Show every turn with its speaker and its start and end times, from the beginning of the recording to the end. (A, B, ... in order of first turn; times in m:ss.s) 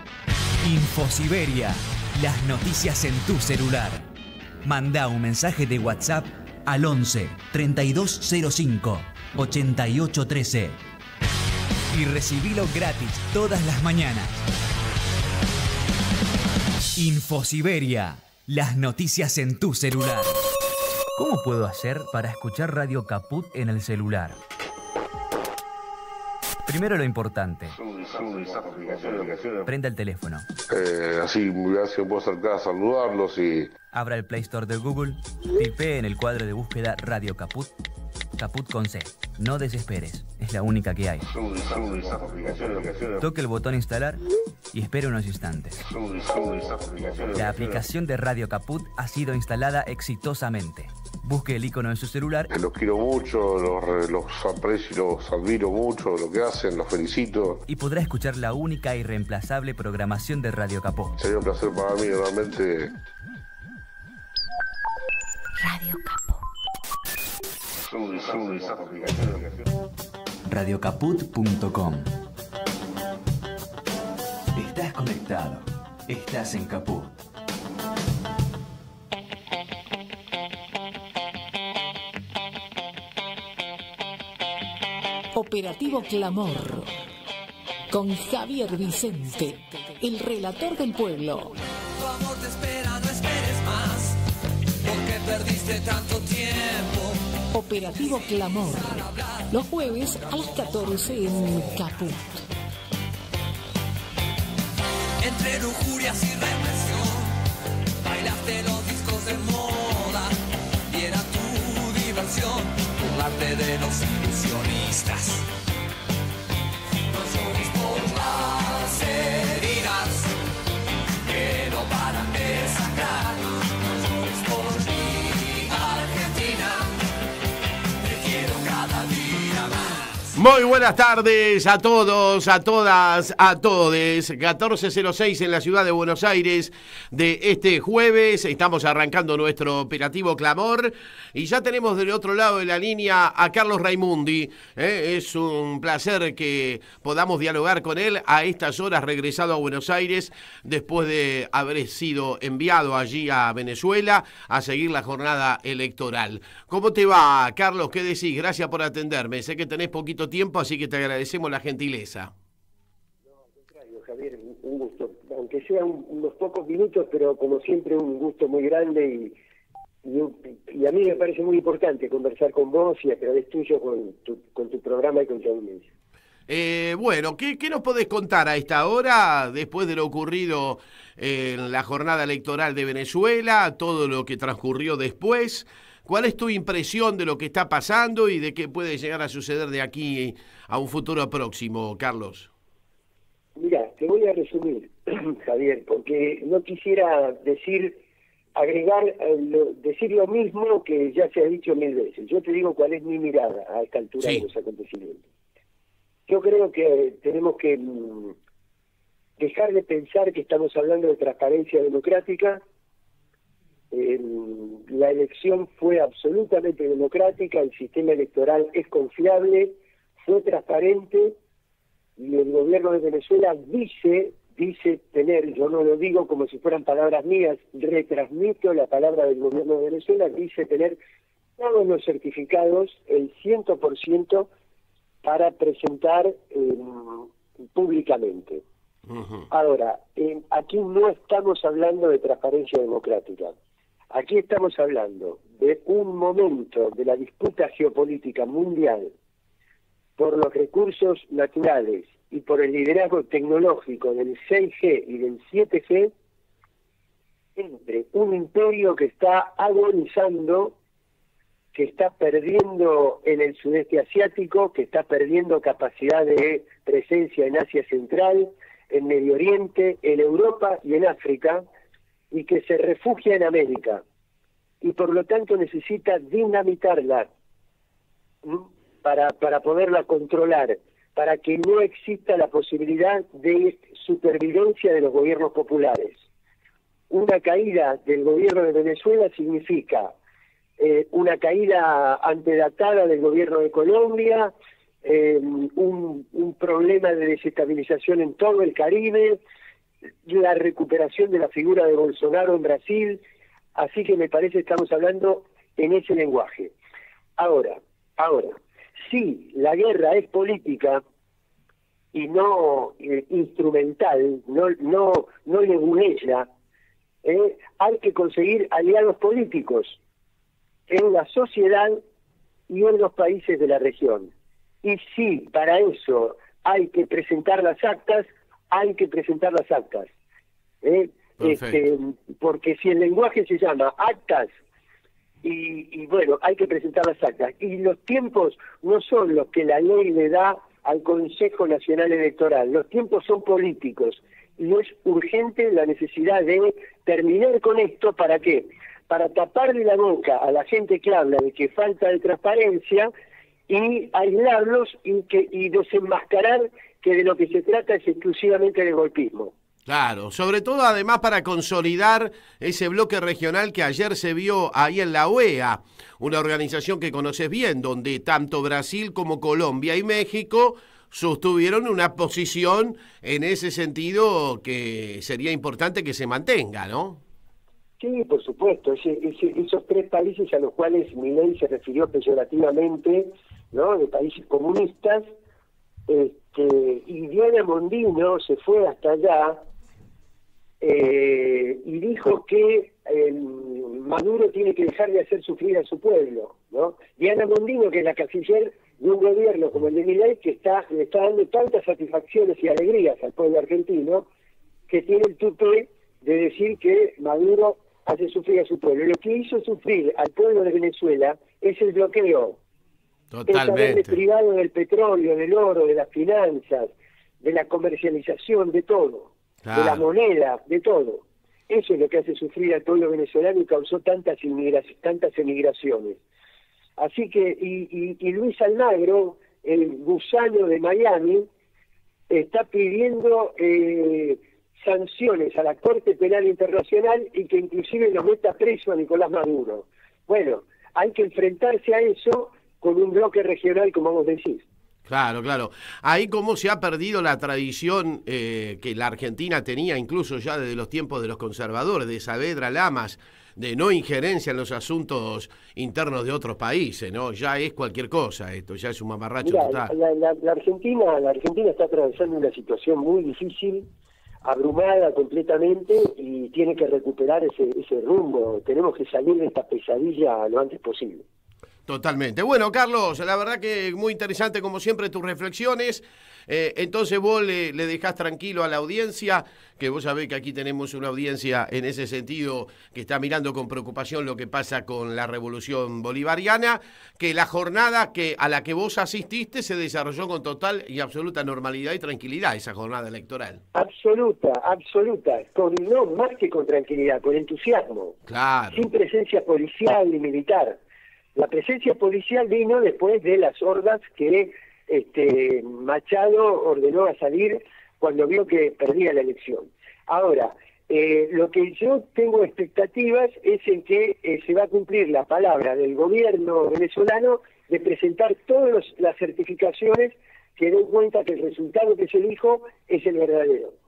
0:00.6-0:04.1 A
0:04.6-0:10.8 A
0:11.9-0:14.4 A
0:17.0-0:20.4 A
0:21.2-0:24.4 A
0:26.6-0:27.7 A
0:27.7-0:29.7 B
0:29.6-0:30.5 A
0:30.7-0:33.7 B
0:33.9-0:37.7 A
0:38.4-0:41.2 A
0:41.2-0:43.2 B
0:43.2-0:45.8 A
0:45.8-0:47.8 B
0:47.3-0:52.5 A
0:52.5-0:57.6 B
0:57.7-1:01.1 A
1:01.2-1:02.9 B
1:05.6-1:06.4 C
1:07.8-1:09.6 B
1:10.5-1:12.1 A
1:14.5-1:17.1 A
1:25.3-1:26.9 C
1:27.9-1:31.5 C
1:32.1-1:34.1 D
1:34.8-1:37.0 D
1:37.5-1:42.4 C
1:45.2-1:47.3 D
1:48.1-1:50.2 D
1:50.9-1:54.7 D
1:54.3-1:55.2 A
1:57.2-2:00.1 D
2:01.3-2:03.2 D
2:04.0-2:06.7 D
2:08.1-2:09.7 D
2:10.3-2:42.3 E
2:43.8-2:49.3 F
2:50.0-2:55.8 F
2:56.5-3:12.5 E
3:13.6-3:18.0 F
3:18.6-3:25.2 F
3:24.2-3:24.4 E
3:26.3-3:28.3 F
3:29.4-3:32.6 F
3:33.9-3:41.4 F
3:42.2-3:51.0 F
3:51.6-3:54.5 F
3:55.2-3:58.6 F
3:59.1-3:59.5 E
3:59.5-4:03.5 F
4:04.1-4:09.1 F
4:10.2-4:16.1 F
4:17.6-4:20.7 F
4:21.7-4:31.6 F
4:32.3-4:34.0 F
4:34.8-4:37.3 F
4:38.4-4:46.2 F
4:47.1-4:50.1 F
4:50.8-4:54.5 F
4:55.0-4:59.4 F
5:00.2-5:03.2 F
5:03.7-5:06.7 F
5:07.4-5:11.0 F
5:12.1-5:16.5 F
5:17.2-5:20.0 F
5:20.9-5:22.0 F
5:22.7-5:24.3 F
5:24.8-5:30.1 F
5:30.8-5:34.5 F
5:31.4-5:31.8 E
5:35.4-5:53.1 F
5:53.7-5:59.5 F
5:59.9-6:17.2 E
6:18.0-6:25.2 F
6:26.1-6:29.6 F
6:30.8-6:44.3 F
6:44.9-6:52.6 F
6:53.3-6:54.2 E
6:53.5-7:06.2 F
6:59.6-7:00.0 E
7:07.0-7:11.5 F
7:12.3-7:24.6 F
7:25.1-7:39.9 E
7:39.4-7:43.9 F
7:44.4-7:51.2 F
7:51.9-8:13.6 E
8:13.7-8:18.1 F
8:18.3-8:18.8 E
8:18.7-8:20.8 F
8:21.3-8:43.7 F